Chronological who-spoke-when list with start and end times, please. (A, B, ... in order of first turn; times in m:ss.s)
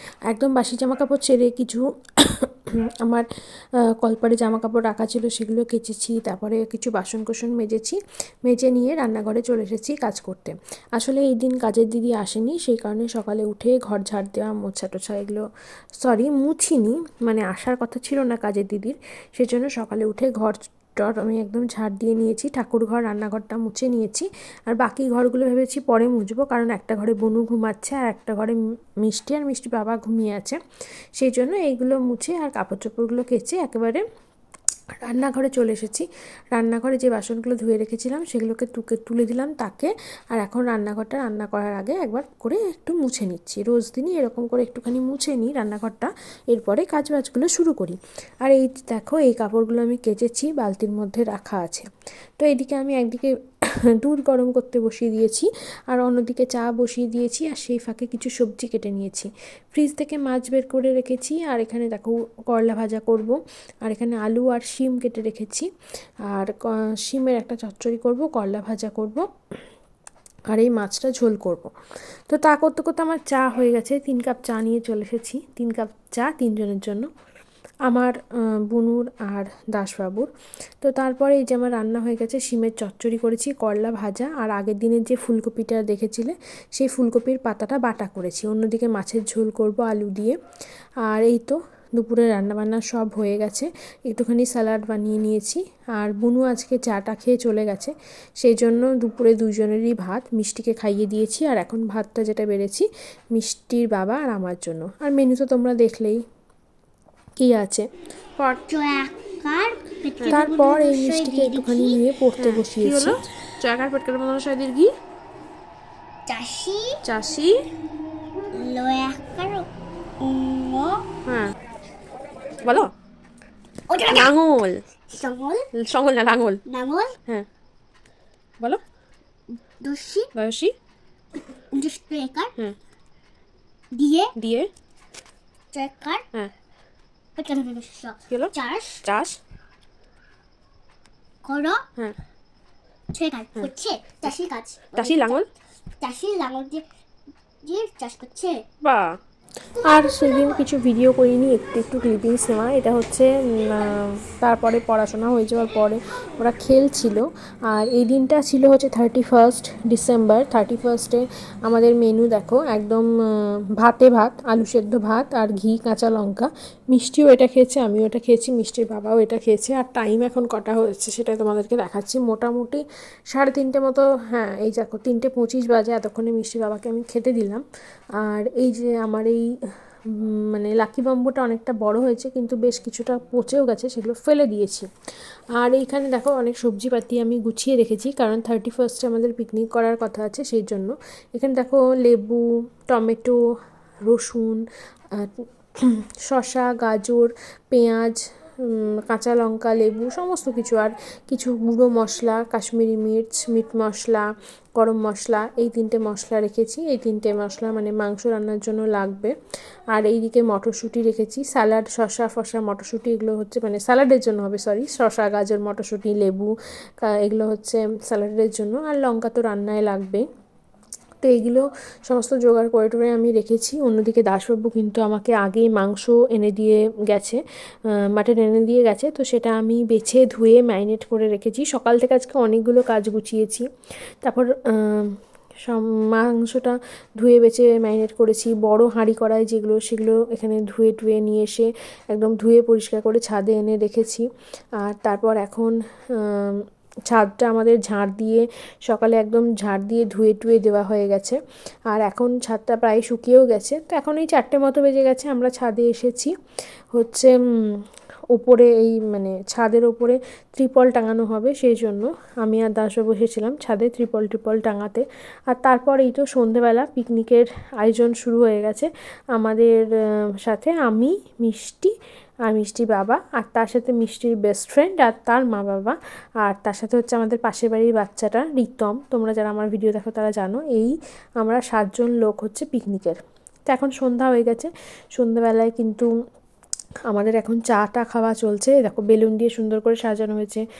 0:00.2-0:03.3 A
0:03.8-0:15.4 A
0:16.0-0:30.6 A
0:31.2-0:34.0 A
0:35.0-0:51.9 A
0:52.4-0:53.3 A
0:53.9-1:05.7 A
1:06.2-1:09.2 A
1:10.5-1:11.7 A
1:12.3-1:17.1 A
1:17.9-1:20.3 A
1:20.8-1:30.4 A
1:31.0-1:46.2 A
1:47.4-1:47.9 A
1:48.5-1:52.0 B
1:50.3-1:53.2 A
1:52.4-1:54.9 C
1:56.3-1:57.0 B
1:57.0-1:57.6 C
1:58.5-1:59.7 B
2:00.2-2:01.1 B
2:01.2-2:01.5 C
2:02.6-2:02.9 C
2:03.9-2:04.3 B
2:03.9-2:04.9 C
2:05.1-2:05.7 B
2:05.7-2:06.6 C
2:06.6-2:07.2 B
2:09.5-2:10.3 B
2:10.4-2:10.7 C
2:11.7-2:12.5 B
2:13.9-2:14.3 B
2:14.4-2:14.7 C
2:15.7-2:16.2 B
2:17.4-2:19.0 B
2:19.0-2:19.4 C
2:21.4-2:21.8 B
2:23.1-2:25.4 B
2:25.0-2:25.5 C
2:26.0-2:26.8 B
2:27.6-2:28.6 B
2:29.8-2:57.6 A
2:58.2-2:59.4 A
3:00.2-3:04.9 A
3:05.6-3:13.4 A
3:14.0-3:14.6 A
3:15.1-3:29.3 A
3:29.9-3:40.2 A
3:41.2-3:47.4 A
3:48.1-3:53.6 A
3:54.2-3:55.1 A
3:55.6-4:04.3 A
4:04.8-4:16.3 A
4:16.9-4:17.8 A
4:18.3-4:31.9 A
4:32.5-4:46.1 A
4:47.1-4:50.6 A